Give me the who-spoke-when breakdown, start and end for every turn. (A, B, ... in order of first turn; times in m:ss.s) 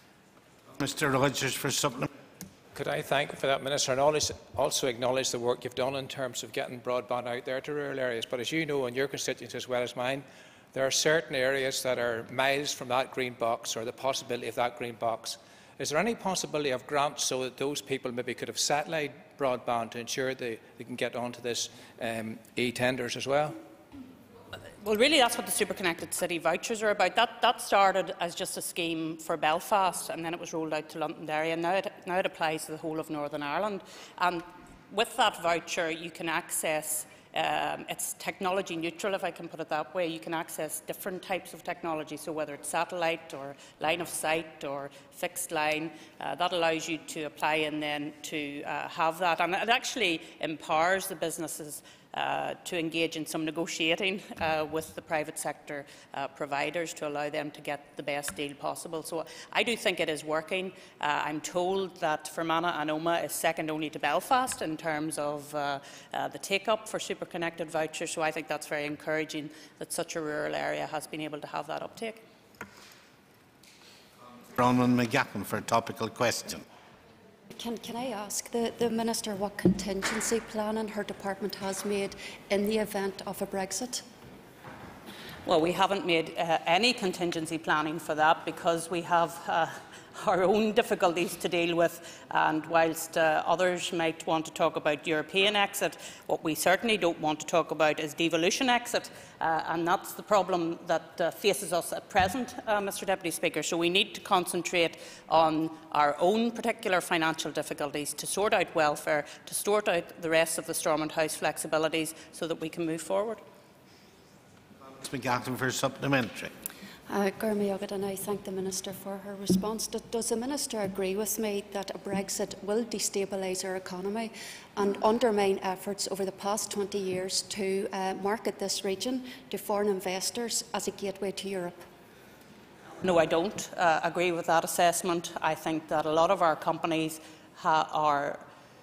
0:00.8-0:02.1 A
0:02.7-0:23.6 B
0:24.8-1:12.2 C
1:14.5-1:16.6 A
1:17.5-1:24.0 D
1:25.4-1:53.4 C
1:55.0-1:56.5 A
1:57.1-2:11.9 D
2:13.0-2:18.4 C